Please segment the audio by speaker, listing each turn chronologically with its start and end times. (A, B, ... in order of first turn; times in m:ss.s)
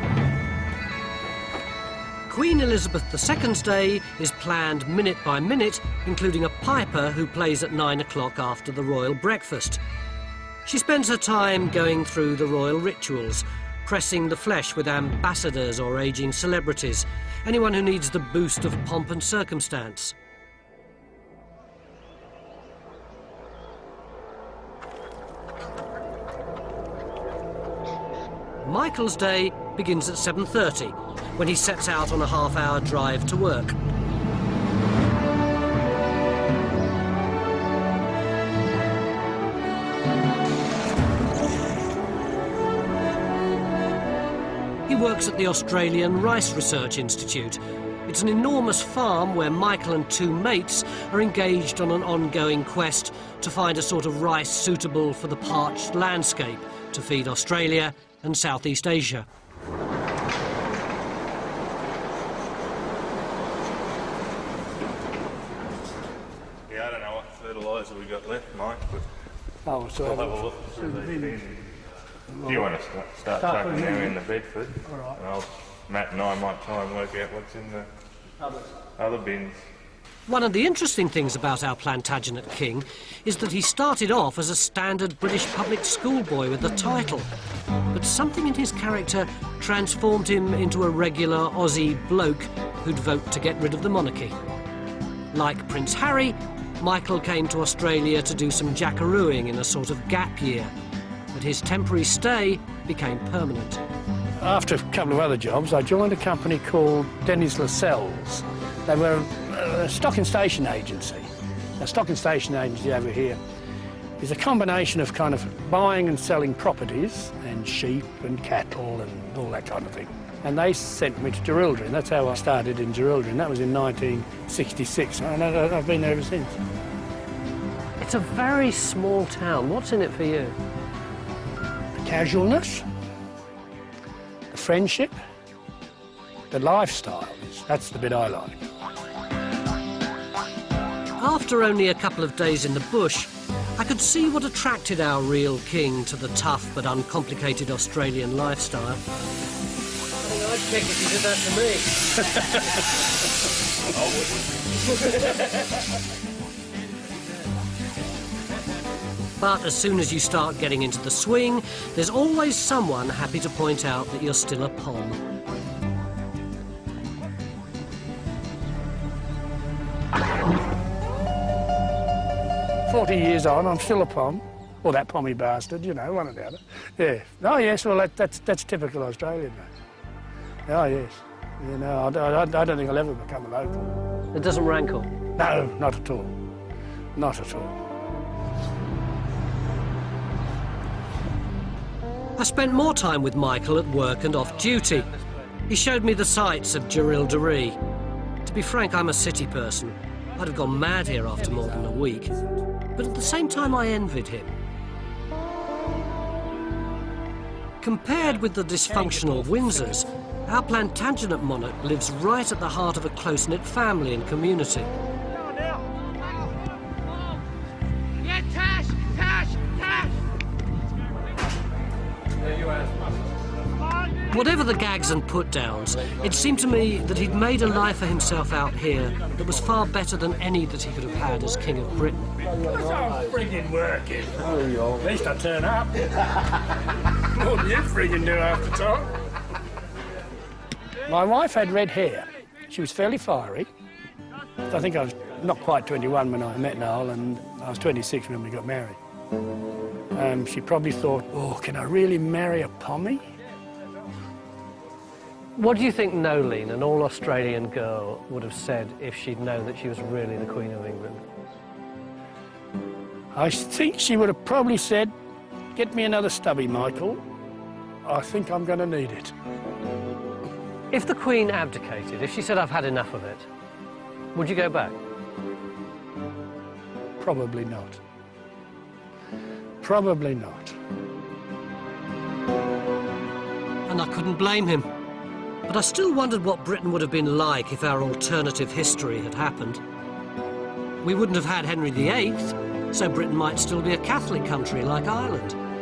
0:02.3-0:09.8 A
0:10.6-0:20.1 A
0:28.6-0:33.8 A
0:44.9-0:59.2 A
1:06.7-1:09.0 B
1:09.6-1:11.4 C
1:10.0-1:11.7 B
1:12.4-1:17.9 B
1:13.4-1:14.1 C
1:14.8-1:15.2 C
1:19.0-1:19.6 B
1:20.3-1:27.3 A
1:27.9-1:34.3 A
1:35.3-1:40.7 A
1:41.3-1:43.8 A
1:44.4-1:53.4 C
1:54.2-2:06.6 C
2:08.0-2:10.6 A
2:12.0-2:12.8 C
2:14.5-2:15.2 C
2:16.5-2:18.6 C
2:21.2-2:29.0 A
2:30.2-2:32.0 A
2:39.4-2:45.2 A
2:52.9-2:59.7 C
3:00.7-3:03.9 C
3:04.3-3:05.1 A
3:05.4-3:06.3 C
3:07.2-3:07.8 C
3:12.4-3:15.1 A
3:15.7-3:17.8 A
3:18.4-3:22.4 A
3:23.0-3:24.6 A
3:27.8-3:34.9 A
3:28.9-3:30.0 C
3:44.3-3:52.3 A
3:52.5-3:56.2 C
3:57.4-3:59.1 C
4:01.1-4:03.7 C
4:04.7-4:09.0 C
4:10.1-4:13.2 C
4:15.6-4:21.3 A
4:23.3-4:25.1 C
4:25.7-4:27.2 C
4:28.0-4:29.3 C
4:30.9-4:33.5 A
4:34.3-4:35.0 A
4:37.2-4:38.0 C
4:39.8-4:40.8 C
4:43.9-4:44.9 A
4:45.7-4:49.8 A
4:51.0-4:55.6 A